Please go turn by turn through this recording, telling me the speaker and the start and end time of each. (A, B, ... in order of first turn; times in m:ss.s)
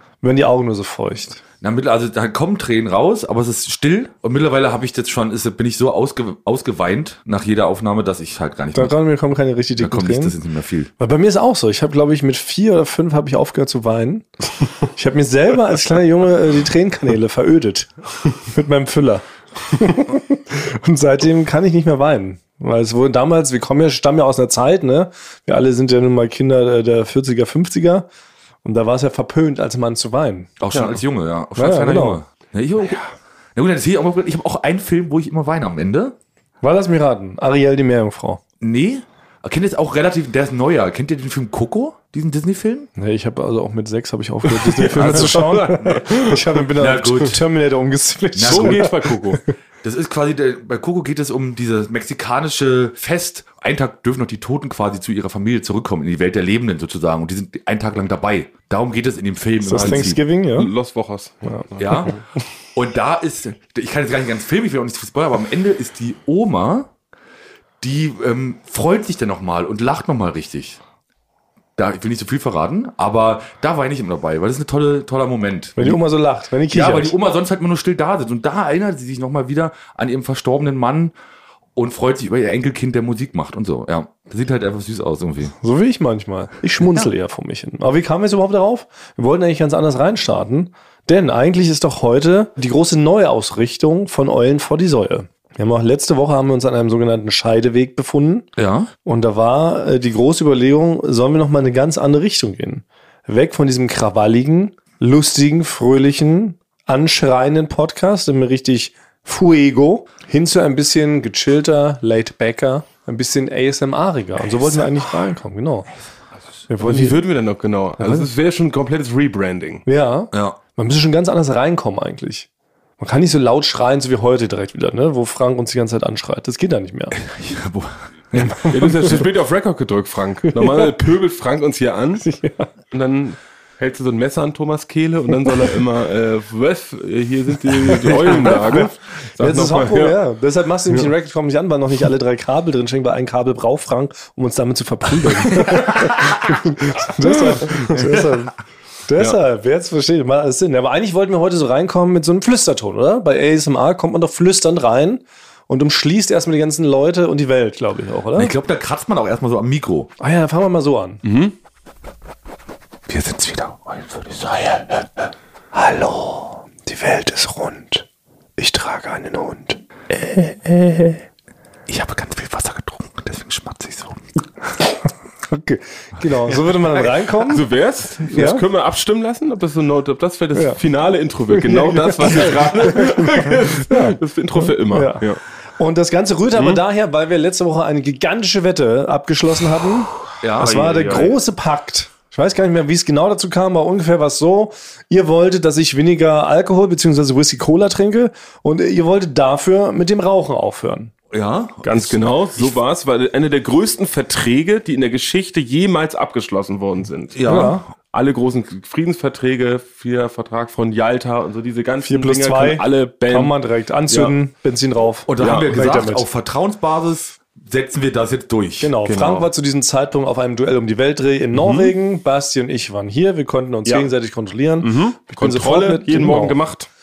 0:00.2-0:01.4 A
0:01.6-0:09.0 B
0:08.7-0:10.3 A
0:09.8-0:10.9 B
0:11.0-0:14.3 A
0:14.8-0:28.0 A
0:28.6-0:30.5 A
0:30.6-0:33.0 B
0:31.6-0:32.2 A
0:33.6-0:36.2 B
0:36.6-0:38.4 A
0:38.6-0:42.9 B
0:43.0-0:49.5 A
0:44.6-0:46.4 C
0:44.8-0:47.4 B
0:48.3-0:48.9 B
0:48.4-0:49.4 C
0:49.8-1:00.2 B
0:59.6-1:00.7 A
0:59.7-1:02.2 C
1:01.5-1:02.1 A
1:01.8-1:02.2 B
1:02.7-1:06.9 B
1:07.8-1:10.8 B
1:11.8-1:16.0 B
1:15.8-1:17.1 A
1:16.7-1:21.1 B
1:21.8-1:25.5 B
1:25.6-1:38.5 A
1:26.8-1:27.1 B
1:38.6-1:38.9 B
1:39.0-1:55.9 A
1:56.7-1:57.2 A
1:56.8-1:59.8 C
1:58.0-1:58.3 A
1:59.8-2:02.5 A
2:00.3-2:00.6 B
2:03.0-2:07.2 A
2:07.2-2:08.7 B
2:08.6-2:12.2 C
2:08.6-2:09.1 A
2:10.5-2:10.9 A
2:12.2-2:12.7 A
2:12.9-2:20.2 C
2:17.9-2:28.5 A
2:27.4-2:28.0 C
2:29.1-2:38.5 A
2:38.3-2:40.1 B
2:40.2-2:41.2 A
2:41.2-2:41.5 C
2:43.1-2:45.3 B
2:45.7-2:48.0 A
2:48.6-2:51.2 A
2:51.9-2:54.2 B
2:55.5-2:57.6 A
2:56.9-3:05.4 C
2:58.3-2:58.6 A
3:01.5-3:05.2 A
3:05.8-3:21.1 A
3:10.4-3:10.8 B
3:10.6-3:11.4 C
3:21.3-3:22.8 B
3:21.8-3:33.6 C
3:27.3-3:27.9 B
3:27.5-3:27.8 A
3:32.0-3:36.2 A
3:34.1-3:34.3 C
3:35.3-3:39.0 B
3:35.4-3:35.7 C
3:38.8-3:46.6 A
3:39.0-3:39.5 C
3:41.5-3:41.9 C
3:44.8-3:46.9 C